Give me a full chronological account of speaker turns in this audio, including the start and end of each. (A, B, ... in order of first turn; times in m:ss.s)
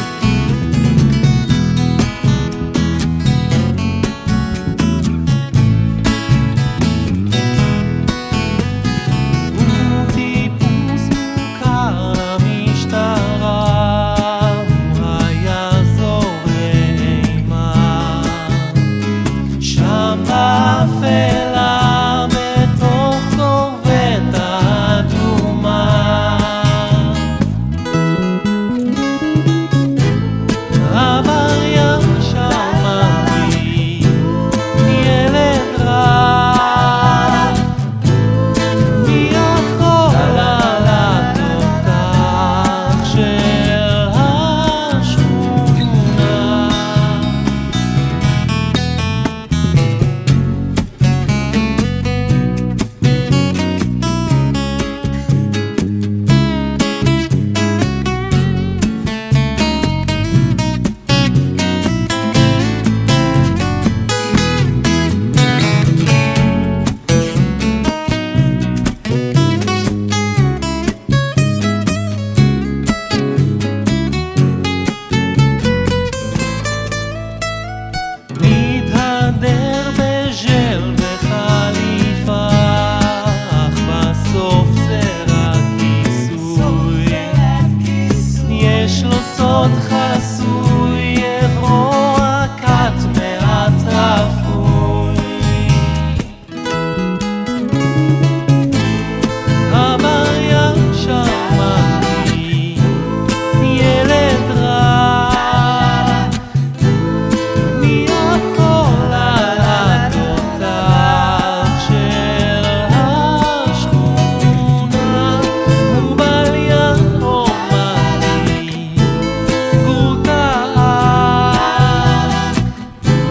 0:09.5-0:18.8 A
0:19.6-0:27.2 A
0:30.8-0:37.6 A
0:38.8-0:47.4 A
1:18.3-1:27.5 A
1:28.2-1:36.2 A
1:39.6-1:43.0 A
1:43.6-1:46.3 A
1:47.6-1:59.1 A
1:59.8-2:02.5 A